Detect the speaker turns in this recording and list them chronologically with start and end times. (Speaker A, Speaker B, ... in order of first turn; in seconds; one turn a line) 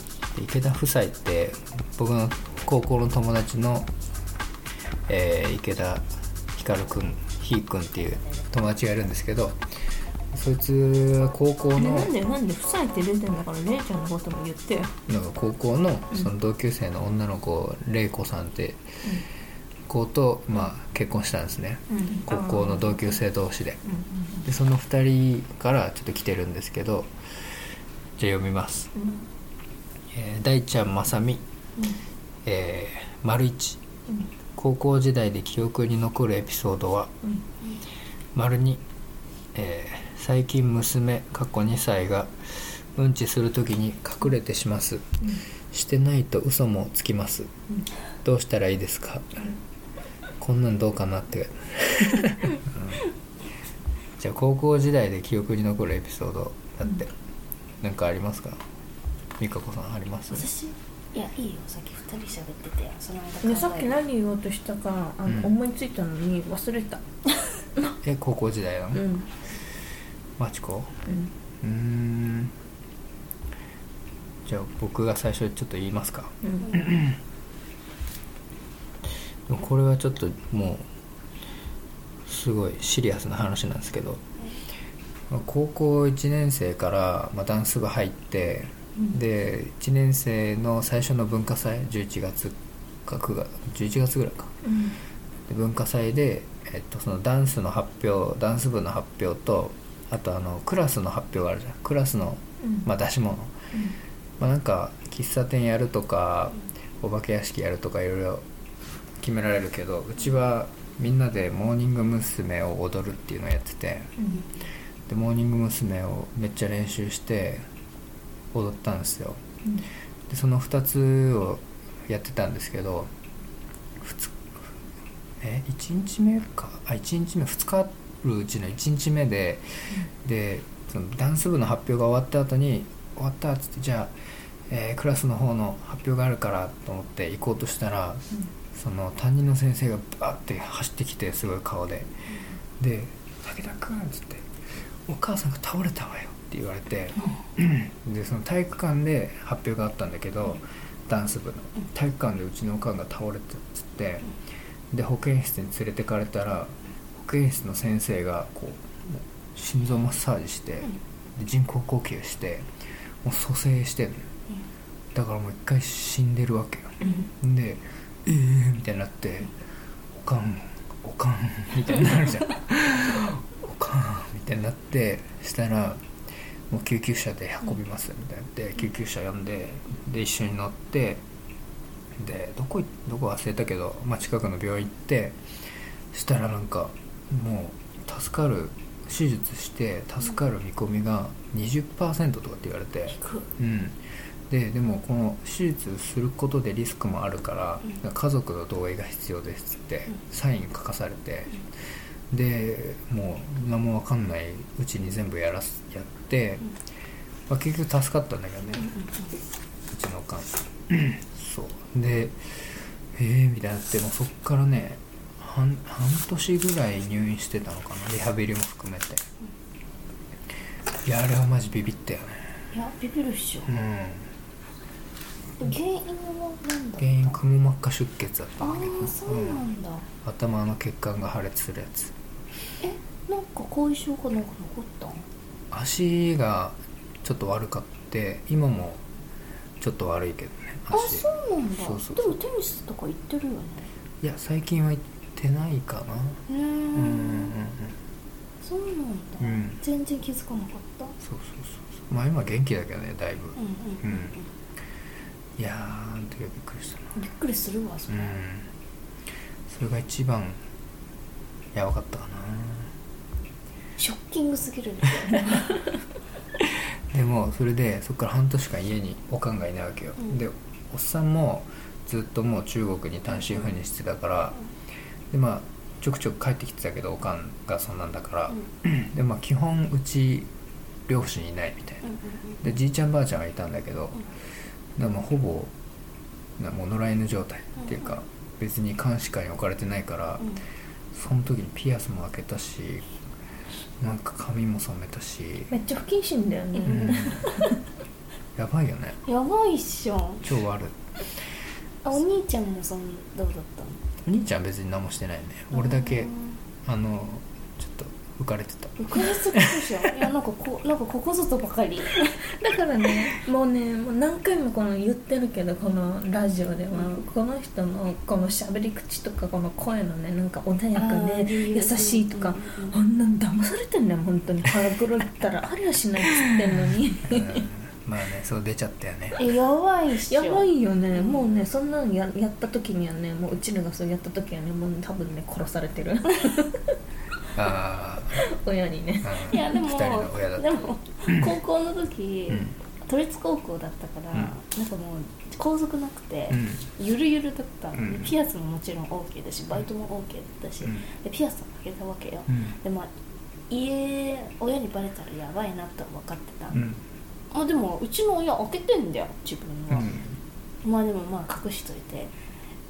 Speaker A: 0.3-3.9
Speaker A: 5.1-9.6
Speaker A: 10.3-12.1
Speaker B: 11.8-14.9
Speaker A: 15.1-18.9
Speaker A: 19.9-23.8
Speaker B: 21.9-23.1
Speaker B: 23.9-24.5
Speaker A: 24.4-27.1
Speaker A: 28.2-28.9
Speaker A: 30.1-31.4
Speaker A: 32.5-33.8
Speaker A: 34.6-37.1
Speaker A: 38.3-38.8
Speaker A: 39.5-47.5
Speaker A: 48.2-49.5
Speaker A: 50.4-53.0
Speaker A: 54.2-57.1
Speaker A: 57.8-58.6
Speaker A: 59.4-60.5
Speaker C: 60.3-64.0
Speaker B: 63.4-67.1
Speaker A: 65.3-65.5
Speaker A: 68.0-69.1
Speaker B: 68.9-69.3
Speaker A: 70.4-70.9
Speaker A: 71.6-72.5
Speaker A: 74.5-77.2
Speaker B: 76.4-76.7
Speaker A: 79.5-80.9
Speaker A: 82.3-84.2
Speaker A: 85.3-94.6
Speaker B: 94.6-95.0
Speaker A: 95.5-103.5
Speaker A: 104.4-108.4
Speaker A: 109.2-114.1
Speaker B: 114.2-114.4
Speaker A: 115.1-117.6
Speaker A: 118.5-119.4
Speaker A: 120.3-123.1
Speaker A: 124.0-124.4
Speaker A: 125.4-129.7
Speaker A: 130.2-134.1
Speaker A: 134.7-142.1
Speaker A: 142.8-144.5
Speaker A: 145.1-154.3
Speaker A: 154.9-162.7
Speaker A: 163.2-164.3
Speaker A: 165.1-169.5
Speaker A: 170.1-176.1
Speaker A: 176.7-181.2
Speaker A: 182.2-185.4
Speaker A: 186.1-194.0
Speaker C: 193.1-193.5
Speaker A: 194.5-201.6
Speaker A: 202.3-206.7
Speaker A: 207.5-208.9
Speaker C: 208.8-209.4
Speaker A: 209.9-219.2
Speaker A: 221.0-222.5
Speaker C: 222.7-223.7
Speaker A: 223.7-224.3
Speaker C: 225.6-227.4
Speaker A: 227.0-229.6
Speaker C: 228.6-230.1
Speaker A: 230.2-232.1
Speaker C: 232.8-235.2
Speaker A: 235.7-239.0
Speaker A: 239.8-241.3
Speaker C: 240.9-243.9
Speaker A: 241.8-242.4
Speaker A: 244.2-246.4
Speaker C: 246.5-247.5
Speaker A: 246.9-247.9
Speaker C: 248.6-251.2
Speaker A: 249.4-249.8
Speaker A: 251.2-254.3
Speaker C: 253.6-254.5
Speaker A: 255.6-257.1
Speaker C: 257.2-258.4
Speaker A: 258.1-258.7
Speaker A: 259.7-260.6
Speaker A: 261.7-262.9
Speaker C: 264.0-265.8
Speaker A: 267.1-274.6
Speaker A: 275.3-280.5
Speaker A: 281.1-282.1
Speaker C: 282.1-282.6
Speaker A: 282.6-284.2
Speaker A: 285.0-285.7
Speaker A: 286.6-290.5
Speaker C: 287.8-288.2
Speaker A: 291.1-293.1
Speaker A: 294.0-295.7
Speaker B: 295.7-297.6
Speaker C: 296.9-297.2
Speaker A: 296.9-297.5
Speaker A: 298.6-299.2
Speaker C: 299.3-300.4
Speaker A: 300.4-301.0
Speaker C: 302.0-304.0
Speaker A: 304.2-306.3
Speaker C: 305.7-306.6
Speaker A: 306.8-309.9
Speaker C: 309.0-312.5
Speaker B: 312.5-327.7
Speaker C: 316.9-317.2
Speaker C: 320.9-323.0
Speaker A: 327.3-329.4
Speaker C: 329.4-331.4
Speaker B: 330.3-336.9
Speaker A: 337.6-338.4
Speaker B: 338.4-339.6
Speaker A: 339.2-340.6
Speaker C: 339.5-353.1
Speaker A: 346.5-346.9
Speaker A: 348.0-348.3
Speaker C: 353.7-356.8
Speaker A: 356.7-357.0
Speaker C: 357.5-360.1
Speaker A: 359.9-360.4
Speaker C: 360.8-362.3